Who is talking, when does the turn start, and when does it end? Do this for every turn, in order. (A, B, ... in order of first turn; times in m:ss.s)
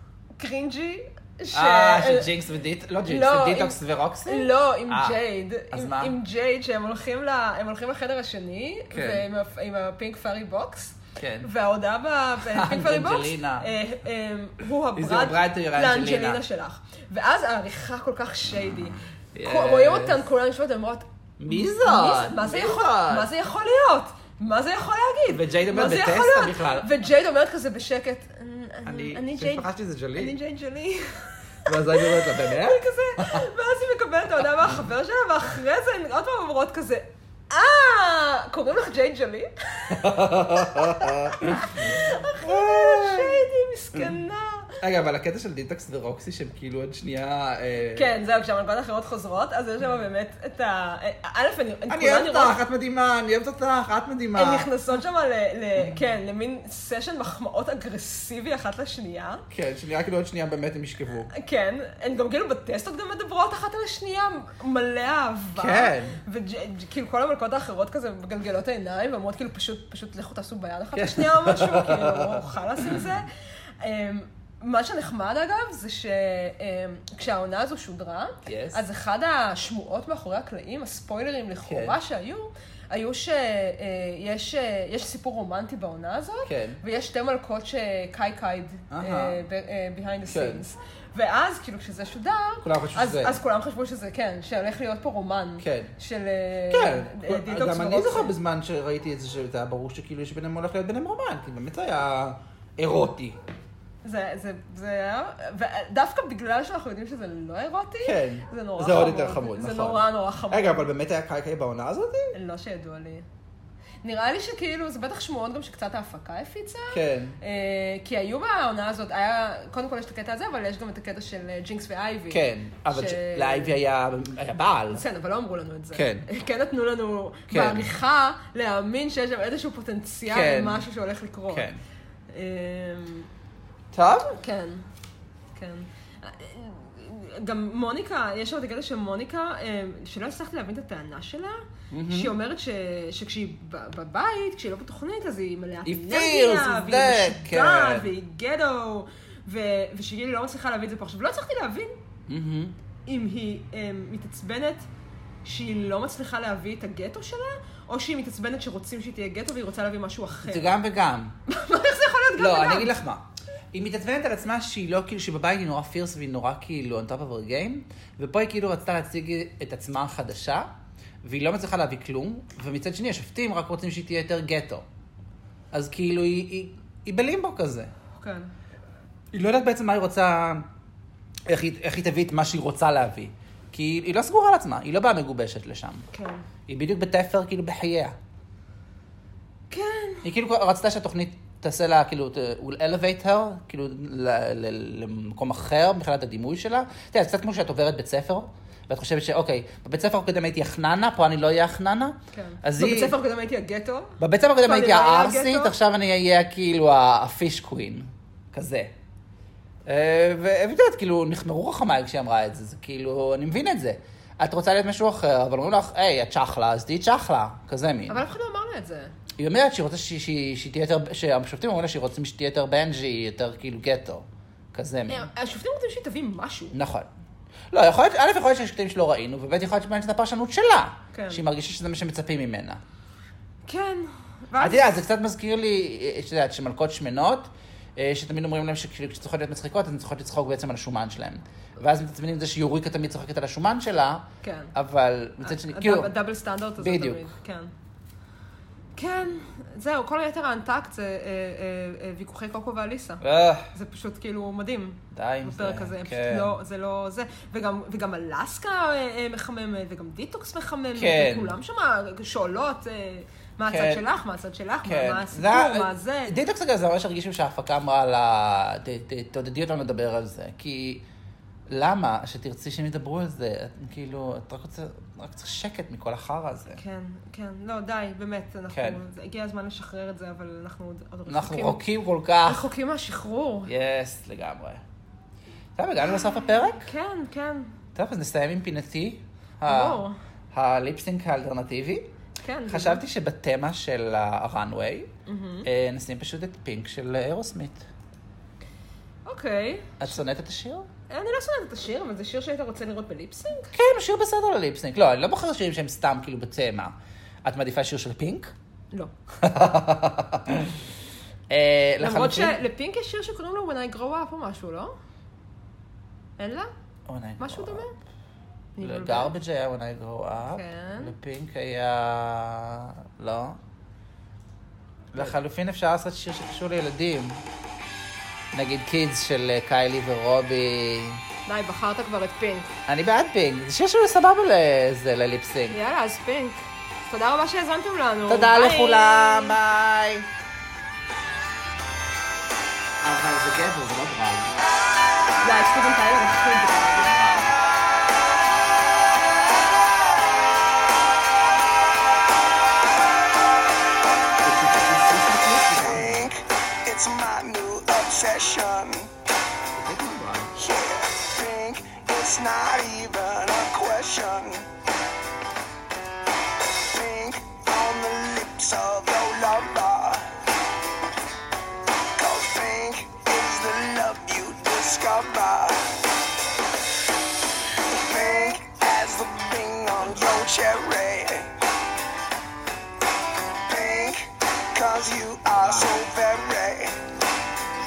0:00.4-0:02.3 A
0:01.5-0:05.2 B
0:03.0-0:44.8 A
0:05.7-0:06.2 B
0:08.9-0:09.2 B
0:11.2-0:11.5 B
0:12.4-0:13.7 B
0:14.9-0:16.4 B
0:19.3-0:20.2 B
0:21.4-0:23.3 B
0:25.3-0:26.9 B
0:28.8-0:30.3 B
0:31.6-0:33.4 B
0:39.9-0:43.4 B
0:44.8-0:48.1 B
0:47.9-0:52.6 A
0:51.9-0:54.7 B
0:54.4-0:59.4 A
0:59.5-1:01.3 B
1:01.3-1:13.3 A
1:05.6-1:06.2 B
1:10.9-1:13.1 B
1:13.8-1:38.3 A
1:18.4-1:18.8 B
1:21.6-1:22.0 B
1:26.4-1:26.8 B
1:28.9-1:29.4 B
1:30.3-1:30.6 B
1:32.6-1:33.4 B
1:35.6-1:35.9 B
1:36.7-1:43.4 B
1:44.0-1:50.9 A
1:48.0-1:52.3 B
1:52.3-1:53.2 A
1:54.0-2:03.8 A
1:56.9-1:57.4 B
2:02.3-2:05.0 B
2:04.9-2:11.7 A
2:05.9-2:06.2 B
2:07.5-2:07.9 B
2:10.3-2:10.9 B
2:11.5-2:11.8 B
2:12.3-2:13.3 A
2:13.9-2:14.3 B
2:14.2-2:14.8 A
2:15.5-2:32.0 A
2:21.9-2:22.3 B
2:25.8-2:28.1 B
2:32.3-2:32.8 B
2:33.1-2:34.9 A
2:35.4-2:40.7 A
2:40.4-2:41.3 B
2:41.5-2:42.9 A
2:42.4-2:50.7 B
2:51.2-2:54.8 B
2:55.7-2:57.9 B
2:58.2-2:58.5 A
2:59.3-3:00.7 B
3:01.4-3:06.1 B
3:06.1-3:06.4 A
3:06.7-3:08.2 B
3:09.7-3:10.3 A
3:10.2-3:23.1 B
3:22.3-3:25.7 A
3:24.2-3:28.9 B
3:29.8-3:38.2 B
3:38.1-3:39.1 A
3:39.4-3:45.3 B
3:45.1-3:46.8 A
3:46.7-3:47.1 B
3:47.7-3:52.8 B
3:51.1-3:51.4 A
3:53.6-3:55.0 A
3:54.6-4:06.1 B
4:04.4-4:04.7 A
4:05.4-4:07.7 A
4:06.8-4:07.2 B
4:08.9-4:26.4 A
4:13.2-4:13.7 B
4:15.1-4:16.5 B
4:20.9-4:21.6 B
4:23.7-4:24.0 B
4:24.8-4:31.0 B
4:31.7-4:36.8 B
4:36.7-4:41.8 A
4:38.7-4:39.0 B
4:41.3-4:42.7 B
4:42.4-4:43.7 A
4:43.7-4:44.8 B
4:45.8-4:46.9 B
4:46.7-4:47.8 A
4:47.9-4:52.1 B
4:49.6-4:50.2 A
4:52.4-4:53.0 A
4:52.7-4:55.1 B
4:55.2-4:55.7 A
4:55.6-4:57.9 B
4:59.2-4:59.9 A
5:00.0-5:00.9 B
5:01.1-5:03.7 A
5:03.7-5:08.5 B
5:09.4-5:10.8 B
5:11.5-5:12.6 B
5:12.0-5:14.9 A
5:16.4-5:16.7 A
5:17.1-5:17.9 B
5:17.4-5:18.0 A
5:18.8-5:19.3 A
5:18.8-5:23.6 B
5:20.5-5:21.1 A
5:25.1-5:27.4 B
5:28.5-5:31.2 B
5:31.5-5:32.7 A
5:32.9-5:35.8 B
5:35.7-5:39.6 A
5:38.3-5:40.3 B
5:43.0-5:44.6 B
5:45.4-5:47.2 A
5:47.0-5:47.6 B
5:54.4-5:56.2 B
5:55.7-5:59.1 C
5:59.7-6:00.6 B
6:00.6-6:04.7 C
6:06.6-6:10.4 C
6:12.2-6:16.0 C
6:17.8-6:21.6 C
6:23.5-6:27.1 C